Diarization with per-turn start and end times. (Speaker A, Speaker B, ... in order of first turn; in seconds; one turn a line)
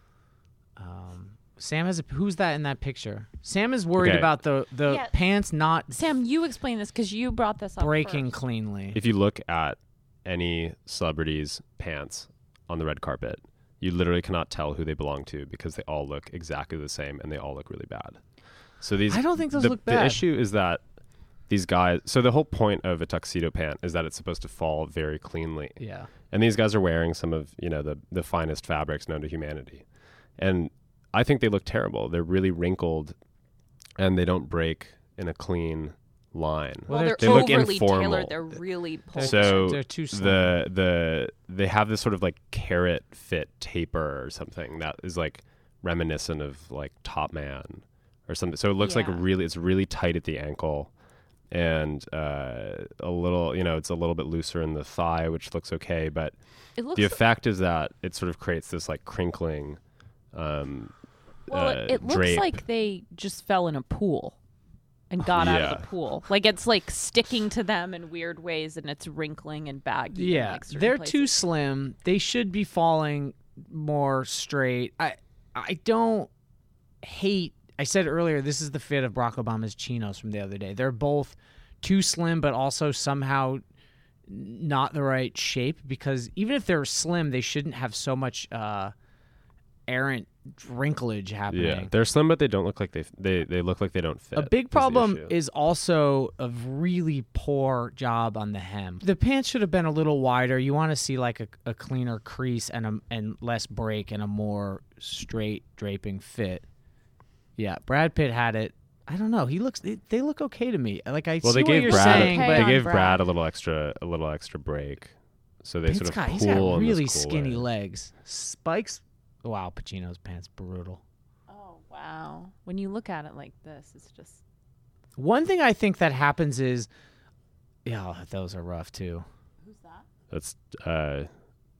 Speaker A: 0.8-6.0
Speaker B: 4.0-4.3
Speaker C: 4.9-5.1
Speaker C: 5.9-8.3
Speaker A: 7.8-9.0
Speaker B: 8.9-18.2
Speaker B: 18.8-20.8
Speaker A: 19.1-20.2
Speaker B: 21.5-29.8
Speaker A: 25.8-26.1
Speaker B: 30.4-33.1
Speaker B: 34.0-38.4
Speaker A: 36.9-37.8
Speaker C: 36.9-39.7
Speaker A: 39.1-40.5
Speaker B: 39.2-50.9
Speaker C: 48.8-49.2
Speaker B: 51.5-56.4
Speaker C: 56.8-57.2
Speaker B: 56.9-59.8
Speaker B: 60.3-60.9
Speaker C: 61.5-64.4
Speaker B: 61.5-62.6
Speaker C: 65.1-71.3
Speaker B: 65.3-65.9
Speaker A: 70.1-76.3
Speaker A: 77.0-83.6
Speaker A: 84.3-88.9
Speaker A: 89.9-91.9
Speaker B: 91.5-95.3
Speaker A: 94.3-106.6
Speaker A: 107.6-113.0
Speaker B: 111.4-117.6
Speaker C: 111.8-113.2
Speaker A: 115.8-121.0
Speaker C: 121.5-124.4
Speaker A: 125.2-126.9
Speaker A: 127.8-129.2
Speaker C: 129.6-130.0
Speaker B: 130.3-131.3